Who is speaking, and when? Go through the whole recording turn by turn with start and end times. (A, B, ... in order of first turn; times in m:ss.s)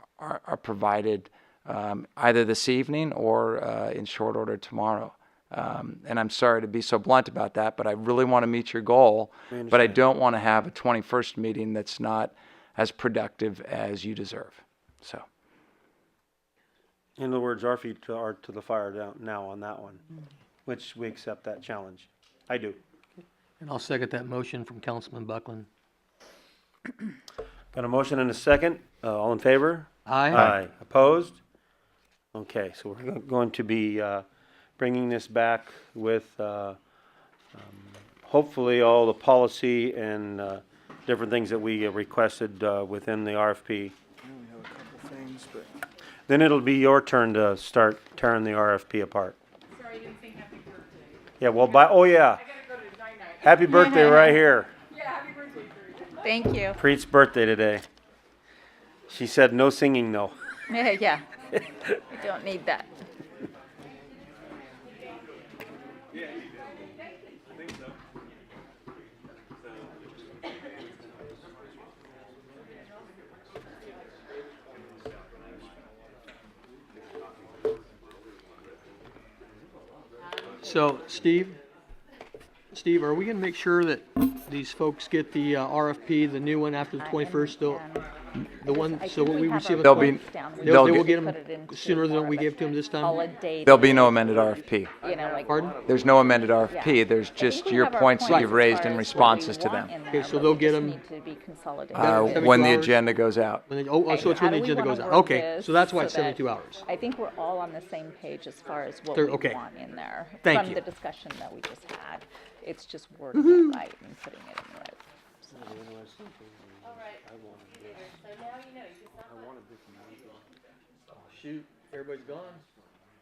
0:00.2-0:15.2 A
0:09.5-0:10.0 B
0:17.2-0:20.0 B
0:20.6-0:22.8 B
0:23.6-0:25.7 C
0:27.7-0:31.4 B
0:30.0-0:30.5 C
0:32.3-0:34.2 B
0:34.8-0:36.8 B
0:37.5-0:43.9 B
0:44.3-0:45.7 D
0:46.3-0:49.4 B
0:49.8-0:51.2 E
0:51.4-0:52.4 B
0:52.5-0:53.5 E
0:53.4-0:54.7 B
0:53.6-0:54.4 F
0:54.9-0:56.1 E
0:56.2-0:56.8 F
0:56.8-0:57.8 B
0:59.1-1:00.4 B
1:00.7-1:01.2 F
1:02.1-1:02.9 F
1:09.7-1:10.0 D
1:11.1-1:11.5 D
1:20.6-1:21.6 C
1:22.7-1:27.8 C
1:27.0-1:28.1 F
1:28.6-1:33.2 C
1:28.6-1:34.4 F
1:29.8-1:31.1 A
1:33.6-1:34.9 A
1:35.0-1:35.9 F
1:35.5-1:35.8 C
1:35.8-1:39.9 A
1:36.7-1:42.8 F
1:38.2-1:38.6 C
1:40.1-1:41.0 C
1:41.9-1:43.6 A
1:42.0-1:43.0 C
1:43.7-1:46.8 C
1:44.0-1:55.0 F
1:49.1-1:49.6 C
1:50.4-1:50.8 C
1:53.4-1:53.8 C
1:55.5-1:58.2 B
1:59.2-2:00.4 B
2:01.3-2:02.6 C